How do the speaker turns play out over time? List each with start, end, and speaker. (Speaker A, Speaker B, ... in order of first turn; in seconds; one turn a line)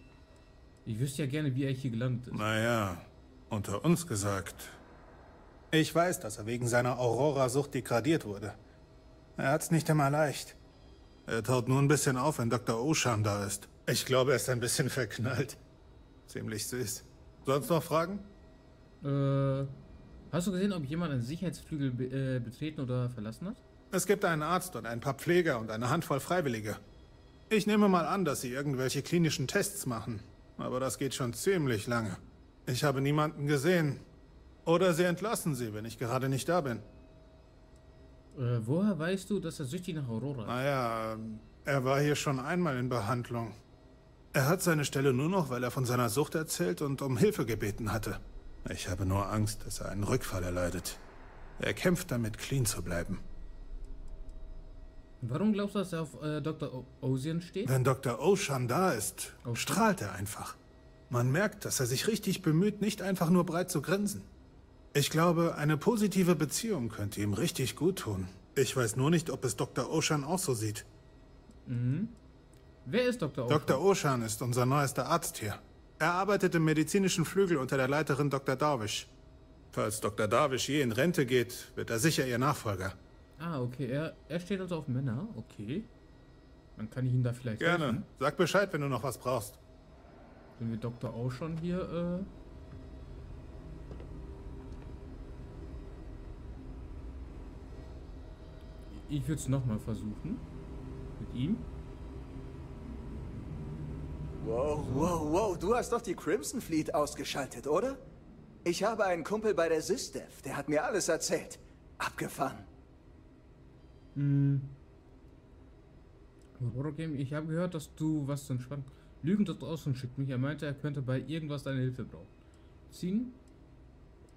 Speaker A: 0.8-2.4
Speaker B: 2.3-4.8
Speaker B: 5.7-8.6
Speaker B: 9.4-10.6
Speaker B: 11.3-15.6
Speaker B: 16.3-18.3
Speaker A: 19.0-19.7
Speaker A: 20.3-23.6
Speaker B: 23.9-26.8
Speaker B: 27.5-34.0
Speaker B: 34.7-36.8
Speaker A: 38.3-40.6
Speaker B: 40.5-43.6
Speaker B: 44.3-51.0
Speaker B: 51.6-53.2
Speaker A: 55.2-57.8
Speaker B: 57.6-60.6
Speaker A: 59.5-59.8
Speaker B: 61.1-64.3
Speaker B: 64.9-70.9
Speaker A: 71.7-72.2
Speaker A: 72.8-73.8
Speaker B: 73.5-79.1
Speaker B: 79.7-83.0
Speaker A: 83.4-85.9
Speaker A: 86.8-88.0
Speaker B: 87.6-89.6
Speaker A: 90.6-92.3
Speaker A: 98.9-100.5
Speaker A: 101.2-101.7
Speaker C: 104.4-108.0
Speaker A: 104.8-105.1
Speaker C: 108.7-112.7
Speaker A: 114.2-114.8
Speaker A: 116.6-122.3
Speaker A: 122.9-123.4